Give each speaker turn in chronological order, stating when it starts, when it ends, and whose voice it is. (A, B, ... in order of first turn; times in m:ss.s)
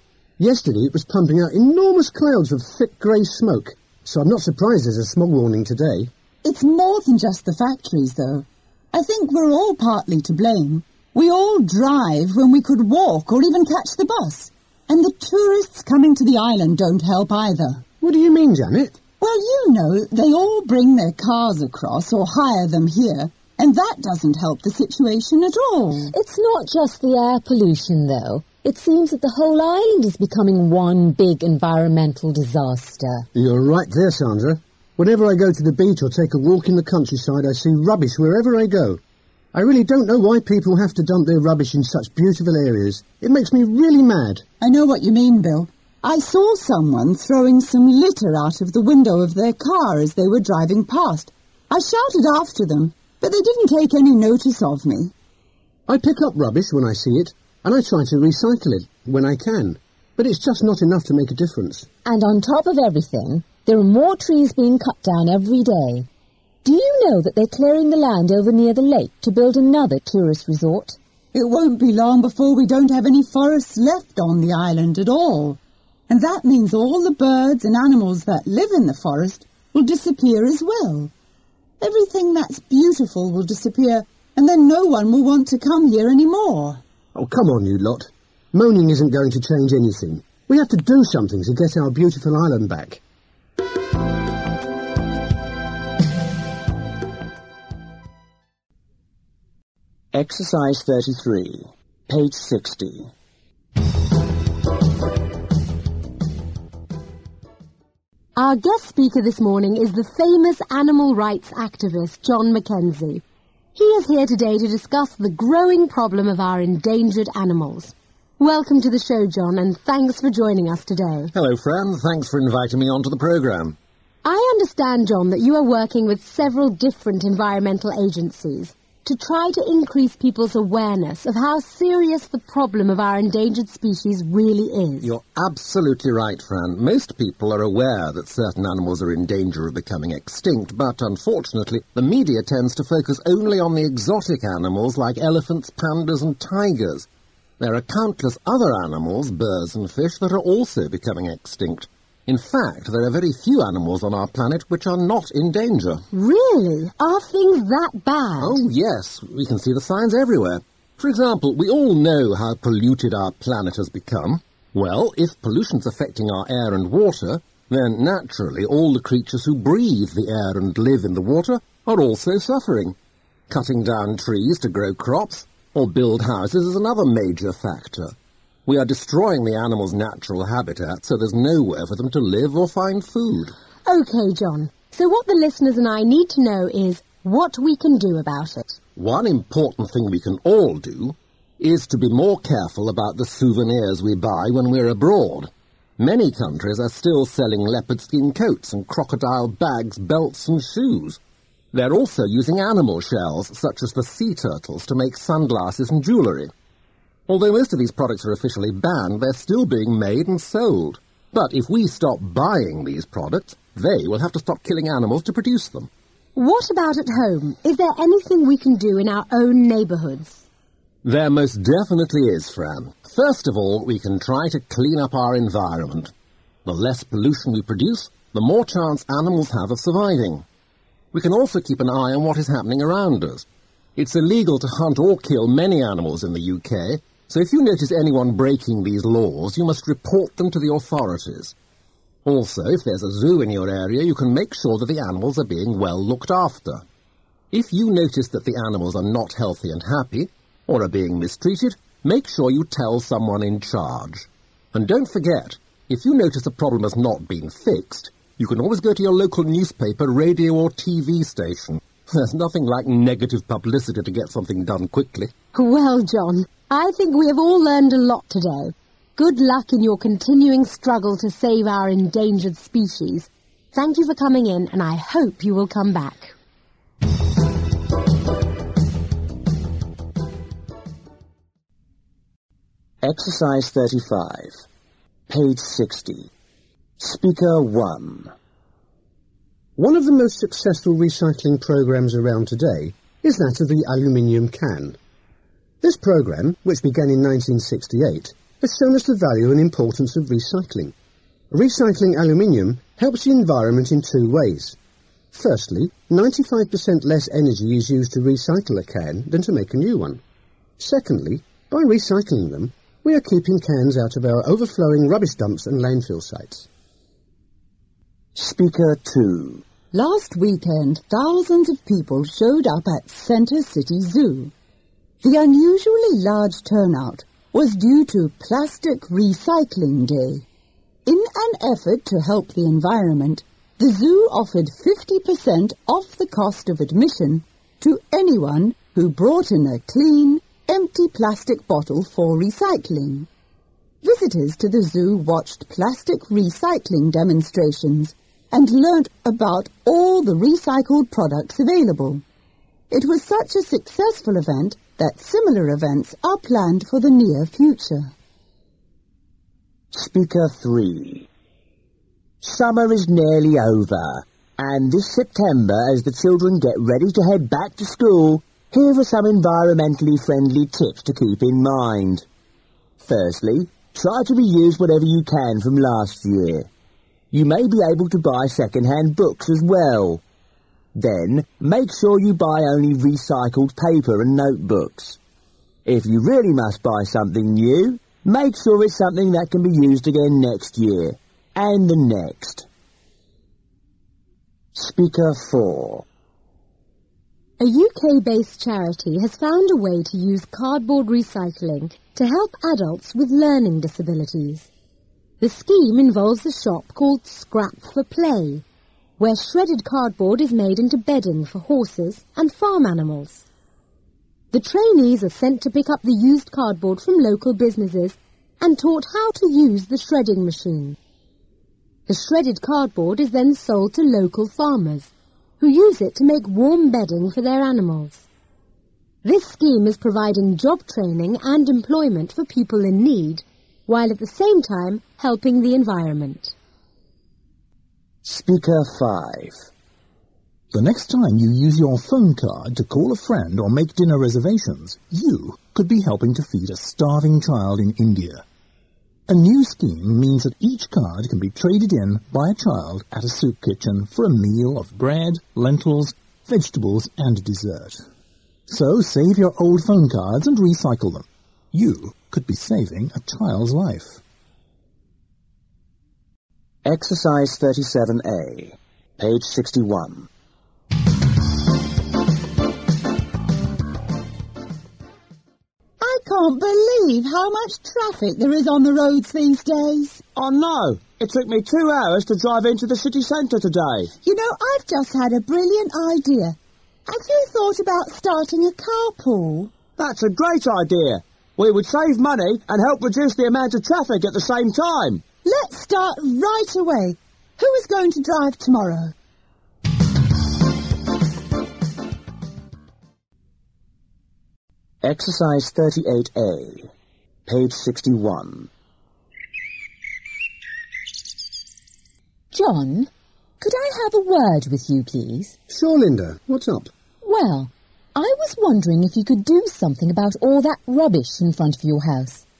0:00.4-0:06.1 A
0:06.4-0:17.8 B
0:18.0-0:19.0 A
0:19.2-0:26.1 B
0:26.1-0:33.3 C
0:33.3-0:39.0 A
0:39.5-0:44.4 A
0:44.6-0:55.1 B
0:55.9-1:01.9 A
1:02.0-1:06.1 C
1:06.6-1:11.0 C
1:11.3-1:21.1 B
1:21.8-1:26.8 B
1:27.1-1:33.0 A
1:40.1-1:43.1 D
1:48.4-1:53.2 E
1:53.7-2:01.3 E
2:01.3-2:03.8 F
2:04.2-2:15.1 E
2:15.0-2:27.0 F
2:27.6-2:36.0 F
2:36.1-2:38.6 E
2:38.4-2:53.0 F
2:53.5-2:58.1 F
2:58.6-3:03.5 F
3:03.8-3:08.8 E
3:08.9-3:21.2 F
3:21.7-3:26.5 F
3:27.3-3:35.9 F
3:36.4-3:40.4 E
3:41.0-3:46.1 F
3:46.6-3:50.4 F
3:51.1-4:01.5 F
4:02.2-4:06.8 F
4:07.5-4:25.3 F
4:25.5-4:36.3 E
4:43.0-4:44.6 D
4:45.3-4:46.3 D
4:47.0-4:48.3 D
4:49.8-4:55.0 A
4:55.8-5:00.9 A
5:01.5-5:04.8 A
5:05.3-5:10.2 A
5:10.8-5:16.7 A
5:18.3-5:19.6 D
5:19.9-5:24.5 B
5:25.2-5:30.4 B
5:31.0-5:43.3 B
5:44.0-5:52.2 B
5:52.9-5:58.1 B
5:59.9-6:01.3 D
6:02.4-6:12.2 D
6:13.0-6:16.7 D
6:17.3-6:20.2 D
6:20.9-6:25.2 D
6:25.8-6:32.7 D
6:34.7-6:36.0 D
6:37.6-6:44.7 E
6:45.4-6:48.6 E
6:49.2-6:53.4 E
6:54.5-7:01.0 E
7:02.1-7:08.2 E
7:09.2-7:16.5 E
7:18.2-7:19.7 D
7:20.7-7:28.4 G
7:29.3-7:38.0 G
7:38.7-7:44.2 G
7:46.8-7:50.3 D
7:56.0-8:00.2 B
8:00.3-8:04.1 D
8:04.2-8:09.7 B
8:10.0-8:15.2 D
8:15.4-8:19.1 B
8:25.0-8:26.9 D
8:27.4-8:28.7 D
8:32.5-8:35.6 C
8:35.7-8:36.9 A
8:37.2-8:42.4 C